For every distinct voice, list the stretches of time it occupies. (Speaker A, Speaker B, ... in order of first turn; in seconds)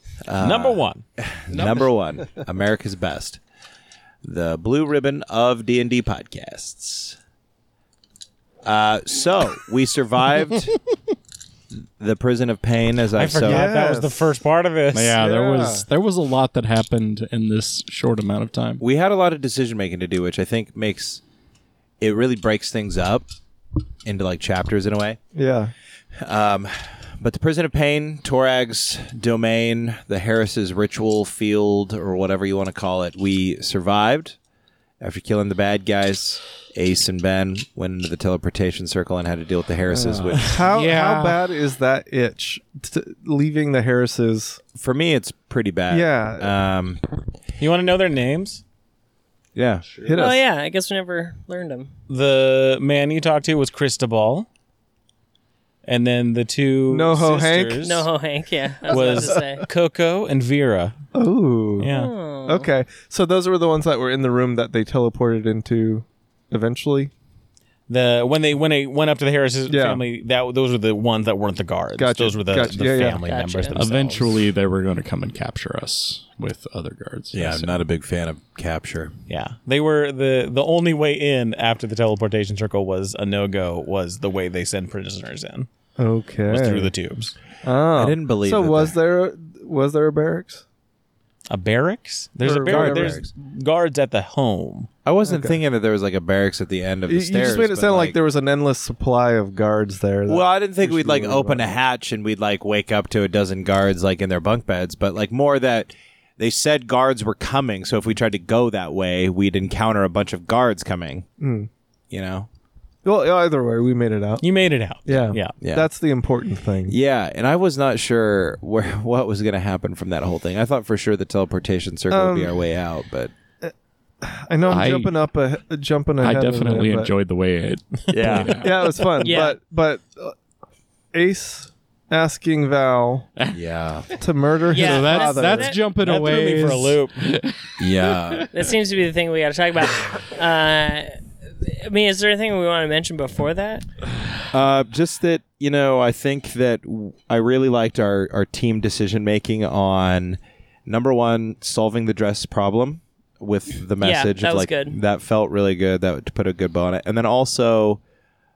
Speaker A: 0.2-3.4, 4.2-7.2, 8.6-10.8, 11.7-13.7, 18.8-21.2, 22.0-23.3, 24.1-25.2, 26.2-34.4, 35.0-40.6, 44.8-47.0, 49.5-49.9, 77.3-79.1, 88.0-89.0, 92.5-93.3, 95.0-98.2, 100.3-111.3, 112.1-112.5, 115.6-115.9, 116.9-123.3, 133.5-134.1, 137.8-138.5, 144.5-158.0
Speaker B: 0.4-1.1, 13.1-15.2, 47.6-48.6, 52.1-54.5, 55.8-58.1, 58.9-61.0, 61.8-62.1, 67.9-74.4, 79.3-85.7, 86.5-87.3, 91.5-94.9, 114.4-115.6, 136.0-137.3
Speaker C: 13.4-14.3, 15.2-15.8, 25.4-25.7, 39.9-44.6, 45.9-46.5, 50.0-50.4, 56.9-57.9, 58.9-59.5, 61.1-67.1, 69.7-70.1, 72.0-73.4, 86.0-87.0, 87.5-90.6, 92.4-93.2, 95.2-95.6, 97.1-101.7, 111.4-111.7, 113.0-114.5, 115.0-117.0, 122.1-122.6, 123.6-127.1, 128.6-130.3, 131.1-133.3, 134.2-135.8
Speaker D: 14.9-18.8, 40.6-41.4, 49.9-50.2, 73.8-77.8, 124.7-125.2, 126.2-129.1, 134.7-138.5
Speaker E: 50.1-51.9, 57.8-59.7, 61.8-62.7, 73.2-73.8, 129.2-129.6, 134.7-135.8, 138.5-143.9, 154.0-155.0